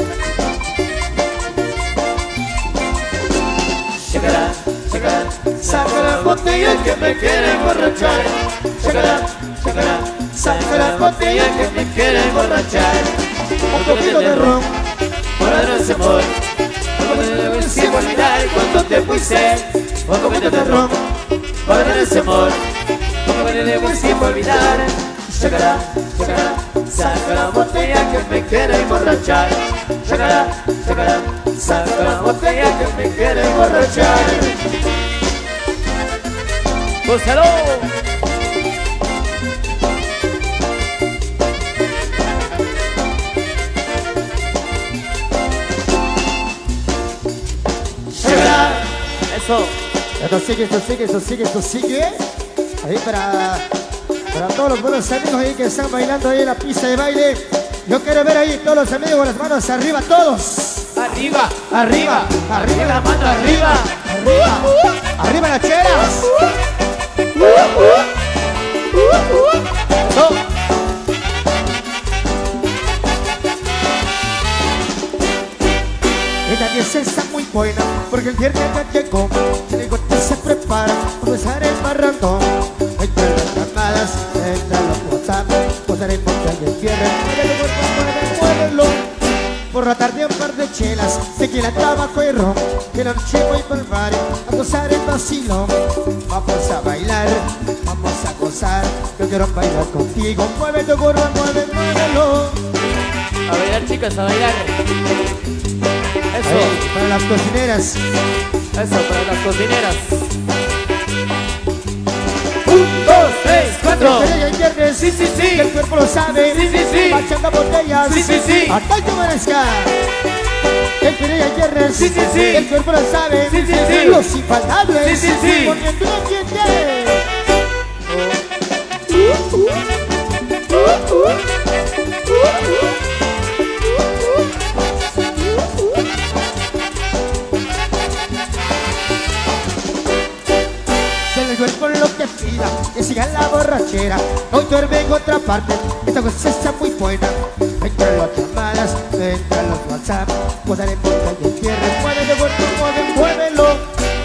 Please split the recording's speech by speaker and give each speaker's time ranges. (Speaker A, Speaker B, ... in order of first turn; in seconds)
Speaker A: 4.0-13.2, 13.7-14.6, 15.4-16.3, 17.0-20.9, 21.6-22.6, 23.2-34.5, 37.0-37.9, 48.2-49.8, 61.0-64.0, 67.4-67.9, 70.0-70.4, 103.5-104.7, 106.3-106.8, 108.7-110.3, 112.7-114.4, 115.0-115.7, 116.5-117.3, 118.0-118.8, 122.0-122.7, 123.5-124.2, 125.0-125.8
Speaker B: 5.6-7.2, 7.8-12.0, 13.7-14.7, 17.0-19.5, 20.2-21.0, 23.7-24.6, 25.4-26.5, 31.6-34.5, 48.2-48.8, 50.2-52.2, 52.8-53.6, 54.3-66.3, 67.6-67.9, 69.1-69.4, 76.5-89.1, 89.7-102.6, 106.4-108.0, 114.0-120.0, 121.0-127.3, 129.1-129.8, 130.7-131.4, 141.3-153.9